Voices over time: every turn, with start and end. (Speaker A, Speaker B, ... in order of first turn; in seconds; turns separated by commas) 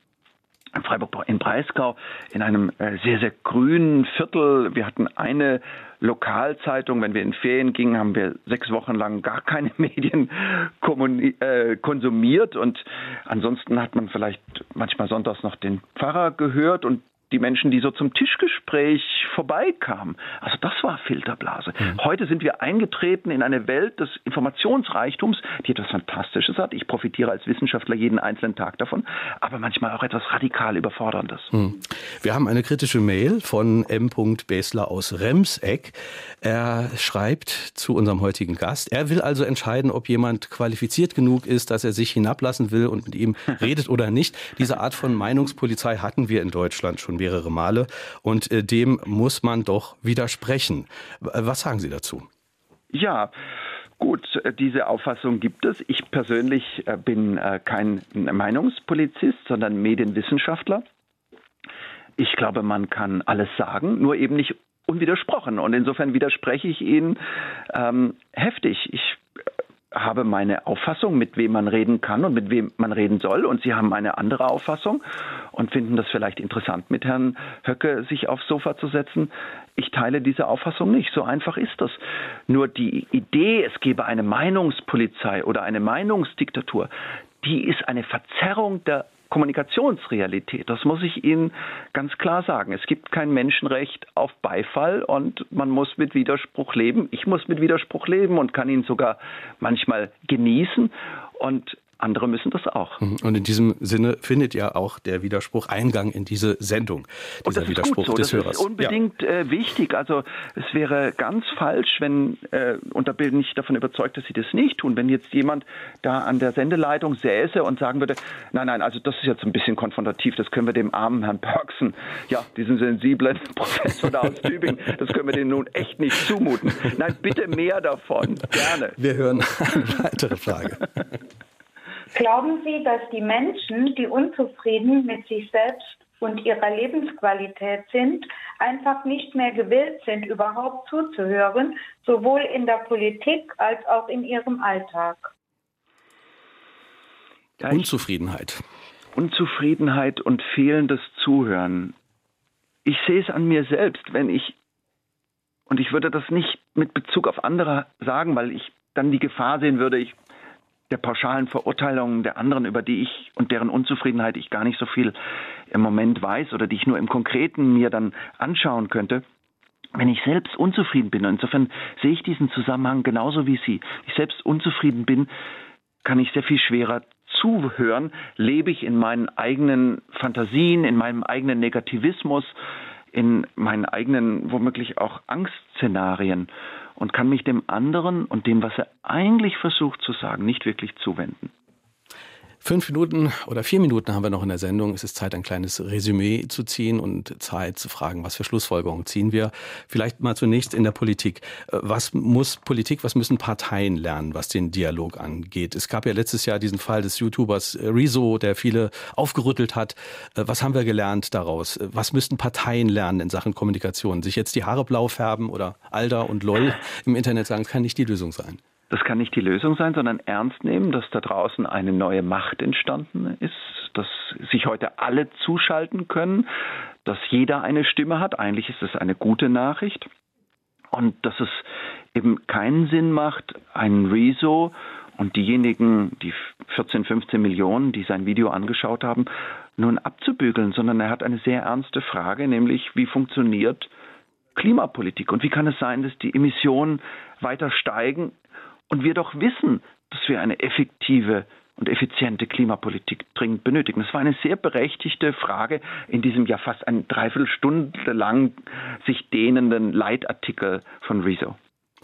Speaker A: 0.7-31.5, Speaker B: 31.5-52.3, Speaker A: 52.9-53.3, Speaker A: 54.0-60.8, Speaker A: 62.2-69.2, Speaker A: 69.9-75.0, Speaker A: 75.5-86.9, Speaker A: 87.4-103.0, Speaker B: 103.0-108.9, Speaker A: 107.5-128.9, Speaker B: 129.0-130.8, Speaker C: 132.1-145.3, Speaker A: 147.6-147.9, Speaker B: 147.7-148.6, Speaker A: 149.1-151.9, Speaker A: 152.8-154.6, Speaker A: 155.7-160.1, Speaker A: 160.9-165.2, Speaker A: 165.7-169.2, Speaker A: 169.9-175.3, Speaker A: 176.0-182.5, Speaker A: 183.1-191.5, Speaker B: 192.6-218.6, Speaker A: 218.9-226.5, Speaker A: 227.0-230.1, Speaker A: 230.9-243.9, Speaker A: 244.6-248.3, Speaker A: 248.9-261.6